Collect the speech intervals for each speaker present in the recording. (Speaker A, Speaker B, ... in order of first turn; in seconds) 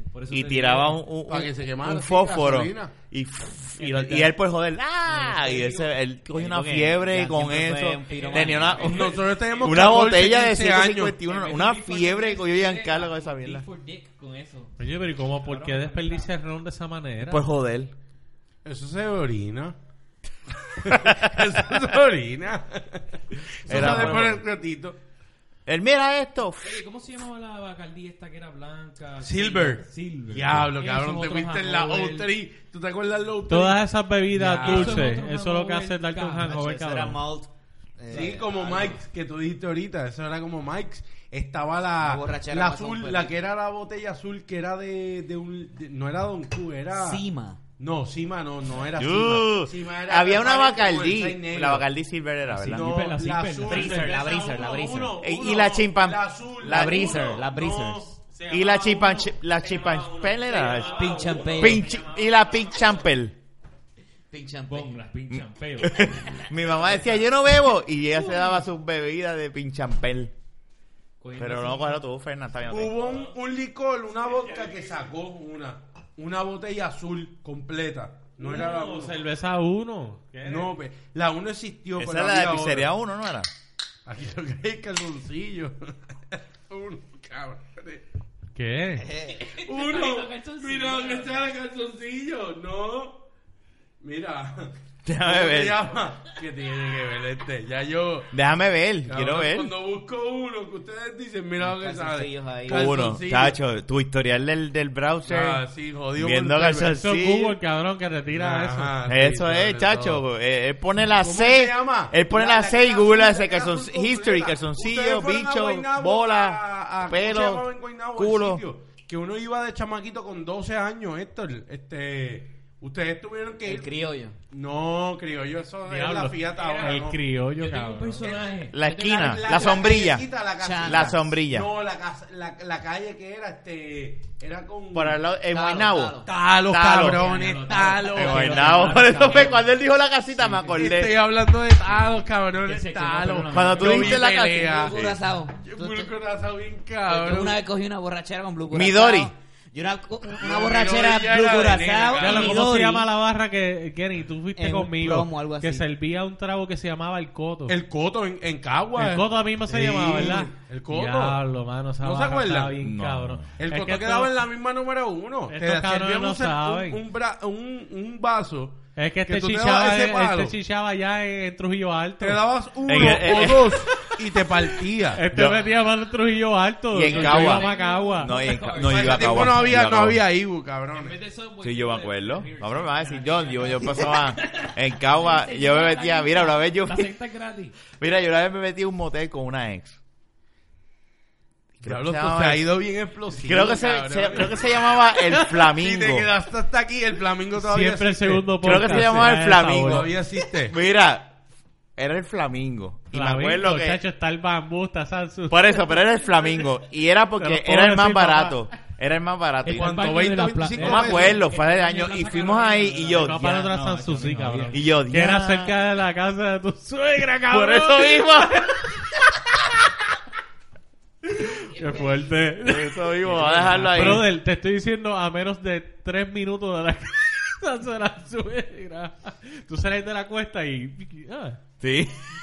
Speaker A: 0.1-1.0, 5.1-5.9, 8.1-9.9, 11.2-16.3, 26.6-32.3, 34.6-36.6, 52.5-54.0, 64.7-66.2, 71.2-72.0, 89.3-91.5, 126.6-129.6, 137.0-139.7, 140.4-140.7, 142.6-144.3, 177.1-179.7, 180.9-187.8, 209.6-214.8, 223.2-224.3
Speaker B: 0.3-13.7, 17.3-17.9, 23.7-24.4, 25.7-26.8, 49.0-52.9, 55.2-57.4, 58.5-63.4, 65.3-70.3, 71.4-73.2, 82.0-83.5, 95.0-95.8, 98.3-99.7, 102.7-105.6, 106.2-107.6, 109.1-118.6, 128.7-130.3, 130.8-131.7, 134.9-137.3, 138.0-141.2, 143.5-145.2, 148.7-149.3, 162.8-163.5, 172.9-174.0, 175.3-175.7, 176.9-180.2, 181.6-187.1, 187.9-190.0, 191.8-192.7, 193.3-196.3, 198.6-200.1, 200.7-201.4, 202.0-204.0, 205.5-210.0, 210.8-213.7, 214.7-215.7, 217.5-219.0, 222.6-224.3, 231.8-232.2
Speaker C: 1.3-2.9, 3.8-4.3, 8.8-11.2, 18.6-19.8, 20.8-25.0, 29.2-35.1, 38.1-47.2, 47.8-51.9, 52.6-58.1, 72.7-79.2, 80.5-82.9, 84.1-88.0, 89.5-93.2, 94.0-98.3, 99.1-103.6, 105.3-106.9, 108.3-110.2, 111.2-123.9, 124.5-127.2, 128.2-128.5, 129.0-135.2, 136.2-139.0, 140.7-145.0, 145.6-147.6, 150.4-152.7, 157.7-161.4, 162.0-162.8, 163.6-170.5, 172.2-175.2, 178.8-181.2, 191.8-194.8, 195.3-200.8, 209.7-211.4
Speaker D: 6.3-9.1, 36.4-39.0, 42.0-43.3, 46.9-47.6, 53.6-55.2, 56.6-58.1, 60.8-61.9, 64.3-65.0, 89.0-89.5, 101.6-103.0, 123.6-124.4, 130.6-131.2, 135.5-136.3, 138.7-139.5, 144.5-146.1, 147.1-153.1, 154.6-155.9
Speaker E: 14.8-17.5, 33.5-37.2, 53.6-54.8, 58.2-62.7, 78.4-80.7, 88.5-89.1, 107.0-109.0, 125.9-128.3, 152.2-157.8, 159.0-164.3, 165.5-167.0, 169.0-173.4, 175.1-178.4, 197.6-200.1, 203.1-205.7, 207.4-208.7, 213.1-218.8, 221.4-231.6